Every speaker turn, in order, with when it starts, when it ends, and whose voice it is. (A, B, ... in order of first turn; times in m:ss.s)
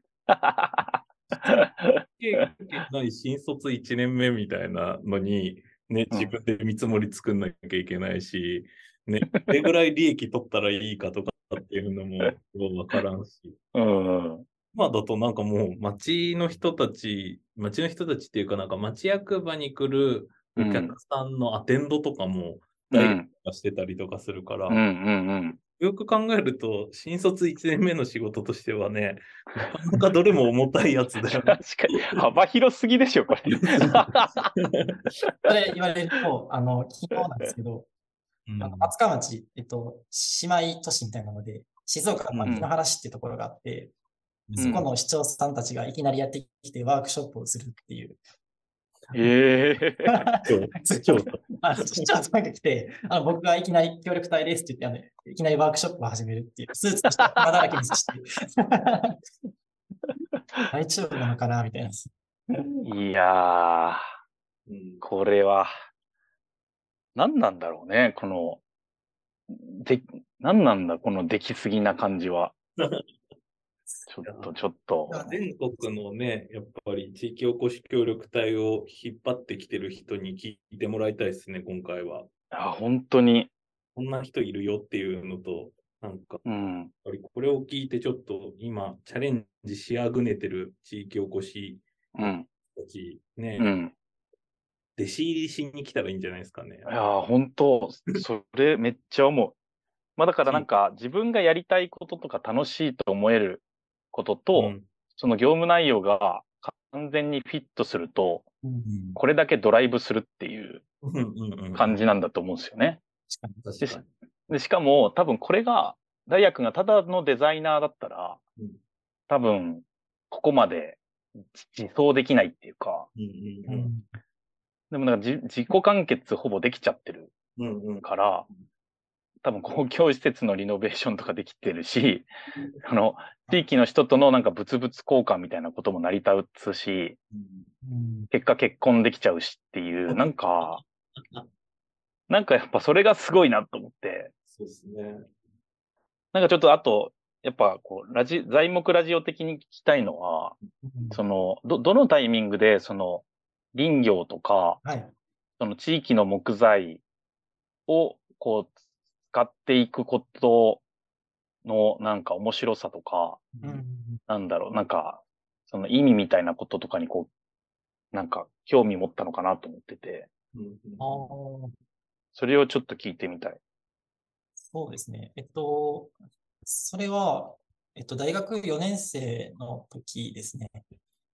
0:00.3-0:02.4 A
0:02.1-0:13.6 B
0:13.7-0:14.5 A
0:14.7-0:24.8 B
0:20.6-0:21.0 A
0:22.9-0:23.3 A
0:24.7-0:25.6 A
0:25.8-0:32.2 B
0:31.4-0:34.5 A
0:33.5-0:35.0 B
0:35.4-0:37.9 C
0:38.5-0:38.9 B
0:38.6-0:43.9 C
0:42.3-0:42.6 B
0:44.5-0:44.9 B
0:44.6-0:44.8 A
0:44.6-0:48.2 C
0:49.1-0:50.2 A
0:50.1-0:59.2 C
0:50.4-0:52.1 B
0:57.2-0:57.6 A
1:00.7-1:02.8 C
1:02.8-1:04.0 A
1:04.7-1:05.0 B
1:05.0-1:05.7 A
1:07.2-1:08.6 A
1:09.5-1:12.6 A
1:12.8-1:13.0 B
1:14.1-1:15.2 A
1:14.2-1:14.5 B
1:15.1-1:15.4 C
1:15.2-1:22.3 B
1:22.5-1:23.5 A
1:24.0-1:26.4 B
1:26.4-1:26.9 A
1:27.0-1:33.7 B
1:32.2-1:32.5 A
1:33.6-1:33.9 A
1:35.0-1:36.9 B
1:36.9-1:39.6 A
1:40.2-1:48.5 A
1:44.6-1:44.9 B
1:48.6-1:48.9 C
1:48.8-1:49.2 B
1:49.2-1:50.8 A
1:51.0-1:52.0 B
1:51.8-1:53.0 A
1:53.3-1:53.6 C
1:53.6-1:54.1 B
1:53.8-1:58.4 A
1:59.3-2:01.0 A
2:01.5-2:03.1 A
2:03.2-2:03.9 B
2:03.7-2:04.1 C
2:04.9-2:07.3 A
2:07.6-2:08.1 B
2:08.0-2:08.5 A
2:09.4-2:12.3 A
2:12.8-2:17.2 A
2:17.3-2:17.7 B
2:17.8-2:18.3 C
2:18.3-2:20.8 A
2:20.1-2:21.5 B
2:22.3-2:24.3 A
2:24.5-2:25.3 B
2:26.3-2:30.6 A
2:30.8-2:31.2 C
2:31.1-2:34.8 A
2:34.8-2:35.1 C
2:35.6-2:37.0 A
2:37.9-2:38.8 A
2:39.3-2:40.8 A
2:41.6-2:43.6 A
2:43.6-2:44.2 C
2:44.3-2:47.3 A
2:48.1-2:50.3 A
2:50.5-2:51.3 B
2:51.0-2:51.7 C
2:52.4-2:53.6 A
2:54.6-2:56.1 C
2:56.6-3:00.8 C